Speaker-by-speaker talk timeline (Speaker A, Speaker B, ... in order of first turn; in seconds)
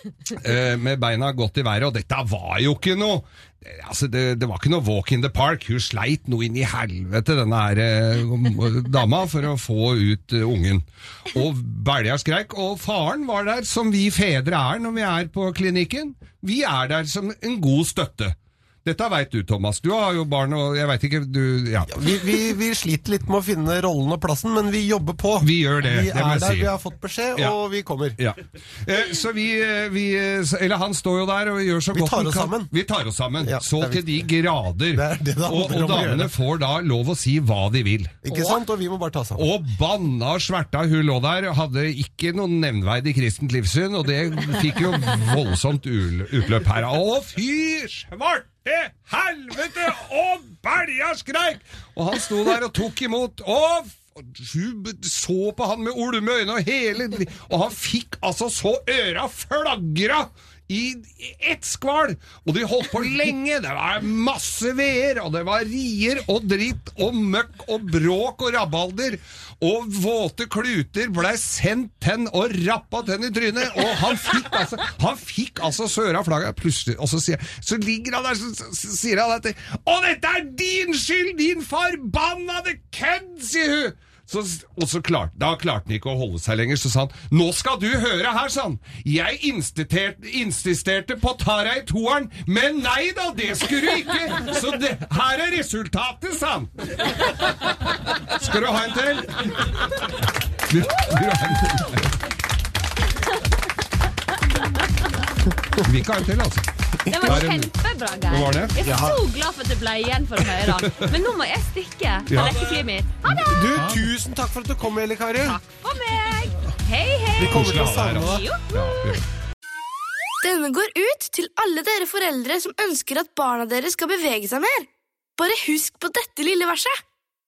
Speaker A: 0.3-21.9, 25.4-26.7, 28.2-38.6, 39.4-100.1, 100.7-102.1, 105.8-106.7, 107.2-107.7, 108.3-108.9, 110.6-111.2, 112.3-112.6, 113.7-114.1, 117.4-119.2
Speaker B: 21.9-28.2, 31.9-32.7, 33.4-34.0, 34.9-36.3, 38.2-39.5, 107.1-107.4, 108.8-109.2, 113.2-115.6, 117.4-118.4
Speaker C: 107.1-113.5, 115.5-117.6, 118.1-118.7
Speaker D: 120.4-126.9